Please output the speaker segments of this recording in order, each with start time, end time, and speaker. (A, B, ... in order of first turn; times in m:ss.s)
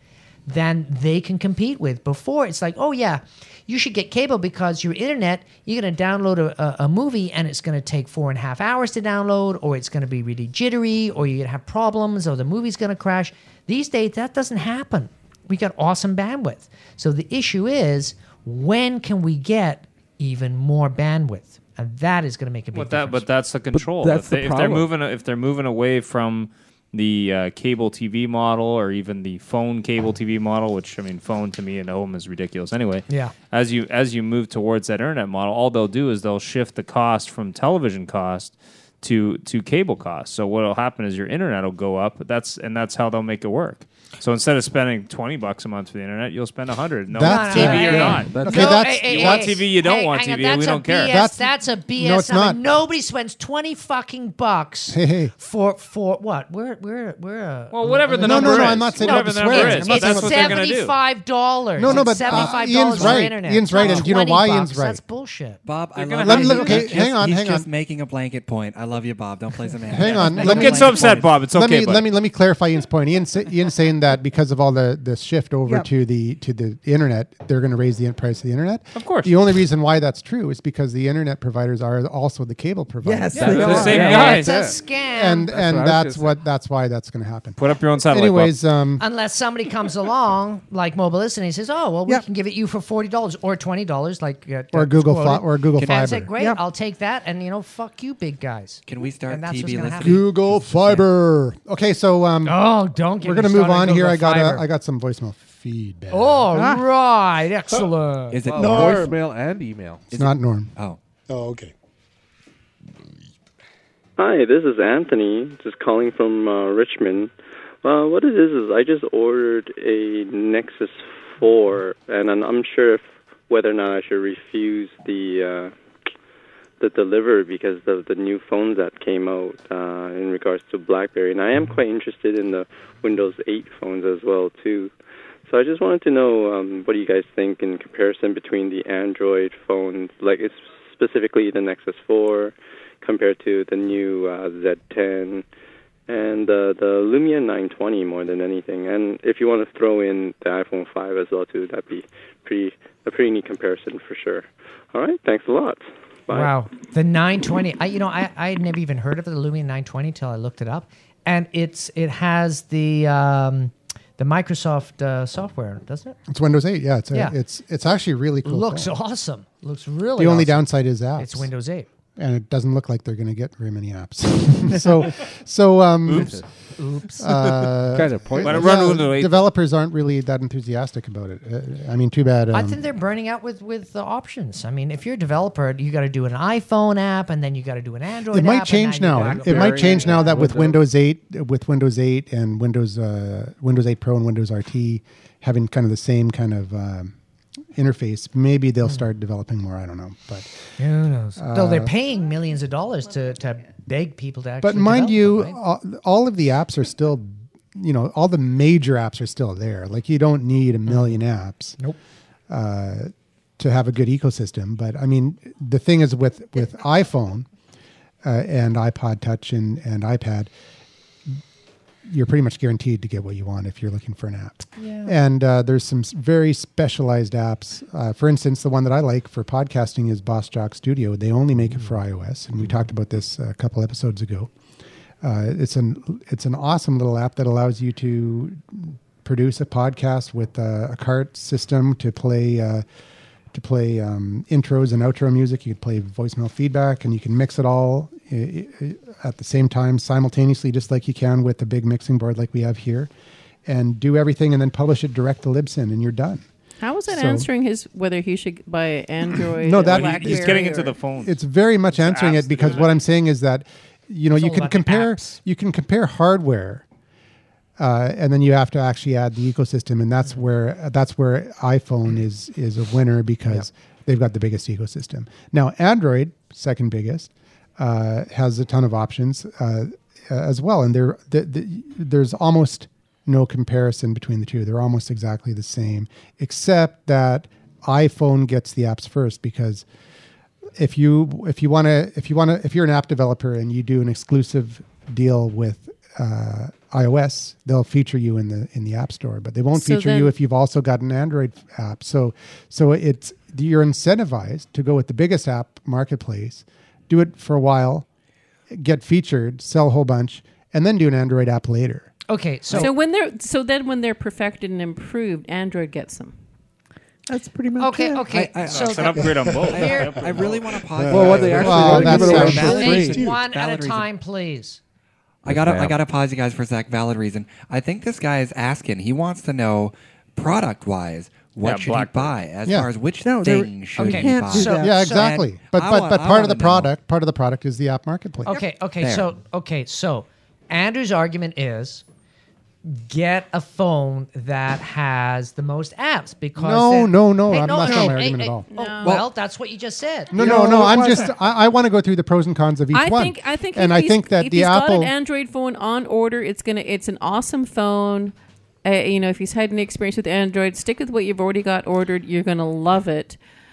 0:00.5-0:23.3 A
0:22.7-0:51.1 B
0:23.7-0:24.9 C
0:33.1-0:33.3 A
0:47.1-0:49.6 D
0:47.2-1:05.6 A
0:47.8-0:48.8 C
0:51.0-0:52.6 D
0:54.9-0:55.3 D
0:57.7-1:01.0 B
0:58.2-1:00.7 D
1:01.8-1:05.0 D
1:05.6-1:11.4 E
1:06.0-1:07.0 B
1:06.2-1:07.7 D
1:09.9-1:24.2 D
1:10.0-1:12.1 B
1:19.0-1:19.3 B
1:23.0-1:24.2 F
1:23.4-1:24.8 C
1:23.4-1:24.7 B
1:23.4-1:25.5 A
1:25.1-1:29.0 D
1:25.5-1:26.3 C
1:27.6-1:28.6 B
1:29.0-1:40.2 A
1:34.7-1:36.3 D
1:36.4-1:36.6 F
1:38.9-1:41.0 E
1:40.0-1:42.6 D
1:42.4-1:44.6 A
1:43.2-1:46.5 D
1:46.1-1:48.9 A
1:46.5-1:46.9 F
1:48.3-1:49.1 E
1:48.5-1:50.1 C
1:48.6-1:49.2 G
1:50.1-1:51.0 E
1:50.1-1:50.7 D
1:51.3-1:51.7 G
1:54.2-1:57.3 H
1:57.8-2:05.7 H
2:06.8-2:14.9 H
2:15.5-2:25.4 H
2:26.1-2:36.5 H
2:36.3-2:46.2 A
2:46.3-2:48.9 D
2:48.4-2:51.9 A
2:50.2-2:51.5 D
2:52.2-2:56.4 D
2:56.1-2:56.4 B
2:56.1-2:56.4 C
2:56.8-2:57.3 A
2:57.2-3:02.8 D
2:57.9-2:59.0 C
2:58.4-2:59.4 B
3:02.5-3:10.4 A
3:08.3-3:17.2 D
3:09.2-3:10.8 C
3:17.8-3:20.7 D
3:20.8-3:25.6 A
3:21.4-3:21.9 D
3:24.6-3:31.8 D
3:30.9-3:31.2 A
3:32.5-3:37.5 D
3:38.2-3:40.5 D
3:42.1-3:54.5 D
3:44.8-3:45.1 A
3:55.2-4:02.8 D
4:03.5-4:13.1 D
4:13.7-4:16.5 D
4:16.8-4:21.0 I
4:17.1-4:17.5 D
4:19.5-4:26.8 D
4:19.8-4:21.4 B
4:21.9-4:23.0 B
4:24.3-4:25.4 A
4:27.8-4:49.8 D
4:50.8-5:08.1 D
4:59.7-5:00.3 I
5:08.7-5:12.1 D
5:12.3-5:12.9 A
5:12.7-5:16.3 I
5:17.3-5:18.3 F
5:17.8-5:20.1 A
5:18.3-5:24.1 E
5:18.6-5:20.6 B
5:19.2-5:19.7 G
5:20.4-5:23.4 G
5:21.0-5:23.2 C
5:21.6-5:23.0 D
5:22.5-5:24.8 A
5:25.5-5:36.9 E
5:25.5-5:26.0 C
5:31.6-5:32.4 B
5:33.2-5:35.0 F
5:34.0-5:35.3 A
5:34.8-5:38.6 D
5:38.5-5:42.0 A
5:39.0-5:39.3 E
5:42.8-5:50.7 A
5:46.6-5:48.7 D
5:48.7-5:49.2 I
5:50.3-5:51.3 F
5:50.3-5:55.1 D
5:52.9-5:58.3 I
5:58.8-6:03.4 I